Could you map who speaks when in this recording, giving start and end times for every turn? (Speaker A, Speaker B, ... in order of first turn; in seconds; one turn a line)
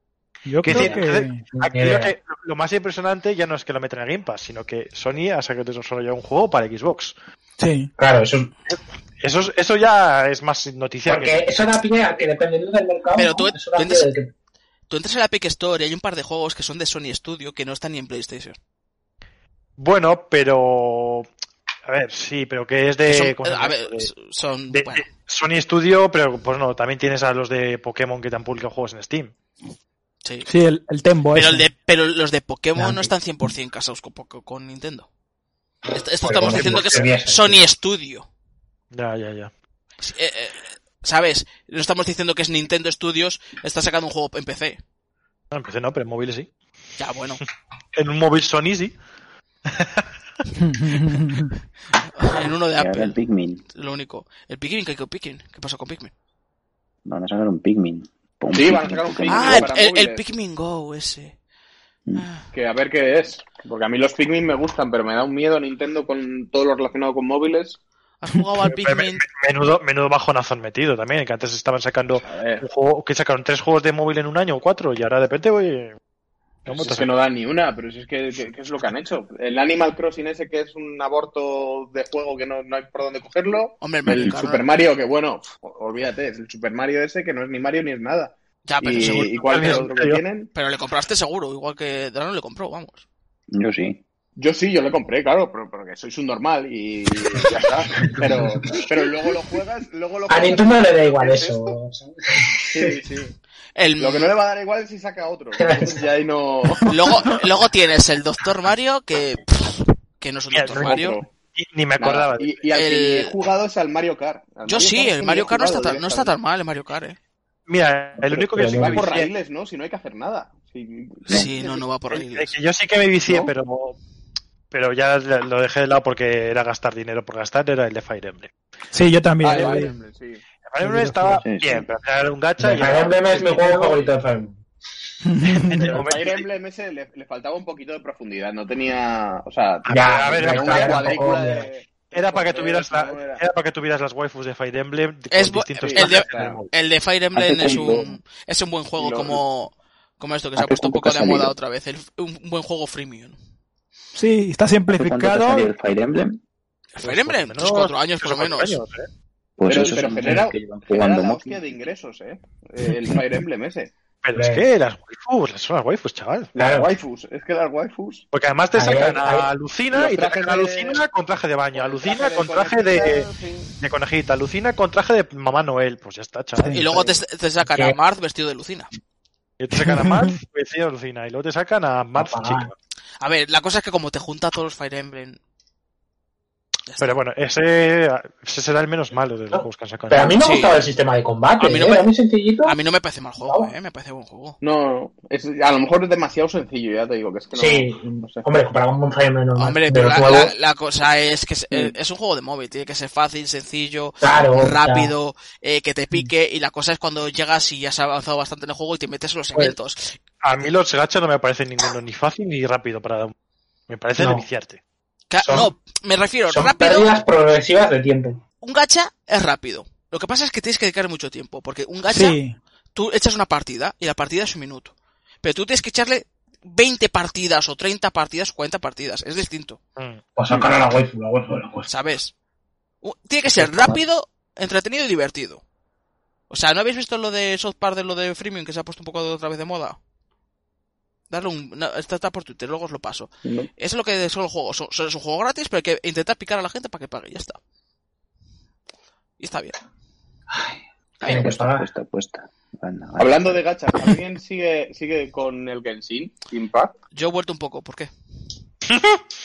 Speaker A: 0.5-1.4
Speaker B: 0.6-7.1
Speaker C: 1.5-2.1
Speaker A: 7.6-7.9
Speaker C: 8.0-8.5
Speaker B: 8.7-11.4
Speaker C: 11.1-14.3
Speaker D: 13.2-14.1
Speaker D: 14.9-18.6
Speaker B: 19.8-21.3
Speaker B: 21.9-24.1
Speaker D: 23.1-25.1
Speaker B: 24.7-29.3
Speaker A: 30.5-31.7
Speaker D: 31.3-35.1
Speaker C: 32.8-33.1
Speaker D: 35.9-38.3
Speaker C: 35.9-37.6
Speaker B: 36.5-36.8
Speaker B: 38.9-39.5
Speaker D: 40.0-44.8
Speaker B: 45.5-46.5
Speaker D: 47.0-47.4
Speaker B: 47.9-49.0
Speaker B: 49.7-50.1
Speaker A: 50.6-51.5
Speaker D: 52.1-53.2
Speaker E: 52.7-53.6
Speaker D: 53.7-56.1
Speaker E: 57.0-59.7
Speaker F: 58.5-60.2
Speaker D: 59.3-61.3
Speaker D: 62.1-62.4
Speaker F: 62.5-67.8
Speaker D: 68.2-69.2
Speaker B: 68.7-76.0
Speaker F: 72.2-72.7
Speaker B: 76.7-77.1
Speaker F: 76.7-90.5
Speaker D: 83.8-84.6
Speaker E: 84.1-84.3
Speaker D: 88.6-89.8
Speaker B: 89.0-90.2
Speaker D: 90.5-93.0
Speaker E: 93.5-94.0
Speaker F: 94.4-101.7
Speaker C: 98.0-98.9
Speaker C: 100.3-103.0
Speaker F: 102.7-103.3
Speaker D: 103.8-104.3
Speaker F: 104.0-106.9
Speaker C: 105.5-106.0
Speaker D: 106.9-111.2
Speaker B: 110.5-112.6
Speaker F: 110.7-111.3
Speaker F: 112.0-116.3
Speaker D: 112.7-113.3
Speaker D: 114.7-117.2
Speaker B: 117.7-119.3
Speaker F: 118.4-121.9
Speaker C: 118.5-119.1
Speaker D: 121.3-122.5
Speaker B: 122.1-124.0
Speaker B: 124.7-128.5
Speaker A: 128.9-129.9
Speaker F: 129.4-130.4
Speaker B: 130.6-133.9
Speaker A: 130.8-131.4
Speaker E: 131.4-131.8
Speaker C: 132.6-134.6
Speaker A: 135.2-136.0
Speaker B: 135.4-136.4
Speaker F: 135.9-143.4
Speaker B: 139.9-141.2
Speaker C: 139.9-141.7
Speaker B: 142.0-146.7
Speaker D: 145.3-153.4
Speaker F: 145.8-146.6
Speaker E: 147.3-148.1
Speaker F: 147.6-148.1
Speaker F: 149.0-149.4
Speaker E: 150.6-151.5
Speaker A: 154.1-155.7
Speaker E: 154.9-156.4
Speaker D: 156.9-158.8
Speaker B: 157.0-159.1
Speaker E: 159.6-161.6
Speaker F: 159.7-163.9
Speaker B: 164.2-166.5
Speaker C: 164.3-164.6
Speaker C: 166.6-166.9
Speaker F: 166.6-168.2
Speaker B: 168.3-173.3
Speaker C: 168.7-169.5
Speaker F: 169.9-171.0
Speaker F: 171.7-173.7
Speaker B: 173.8-176.9
Speaker A: 176.6-176.8
Speaker D: 176.7-178.9
Speaker C: 177.6-177.9
Speaker B: 179.6-182.7
Speaker A: 179.8-180.3
Speaker C: 182.1-182.7
Speaker D: 183.2-185.4
Speaker D: 186.9-187.1
Speaker B: 187.0-190.4
Speaker C: 189.5-192.7
Speaker D: 190.4-190.9
Speaker D: 191.6-192.1
Speaker D: 192.6-194.6
Speaker C: 193.4-193.7
Speaker F: 194.6-198.4
Speaker C: 197.5-200.5
Speaker D: 199.6-210.2
Speaker C: 204.2-205.1
Speaker B: 210.4-213.3
Speaker B: 213.9-214.8
Speaker C: 214.2-214.4
Speaker D: 215.3-217.1
Speaker C: 215.4-215.7
Speaker C: 216.5-218.4
Speaker D: 218.6-222.4
Speaker A: 222.1-222.6
Speaker D: 222.9-229.8
Speaker B: 230.0-230.6
Speaker C: 230.3-231.9
Speaker D: 231.9-232.3
Speaker D: 233.0-235.6
Speaker D: 236.5-240.0
Speaker D: 241.3-247.6
Speaker D: 249.4-249.7
Speaker C: 250.5-251.8
Speaker E: 251.2-253.6
Speaker F: 253.2-256.9
Speaker D: 257.1-258.1
Speaker B: 258.9-259.2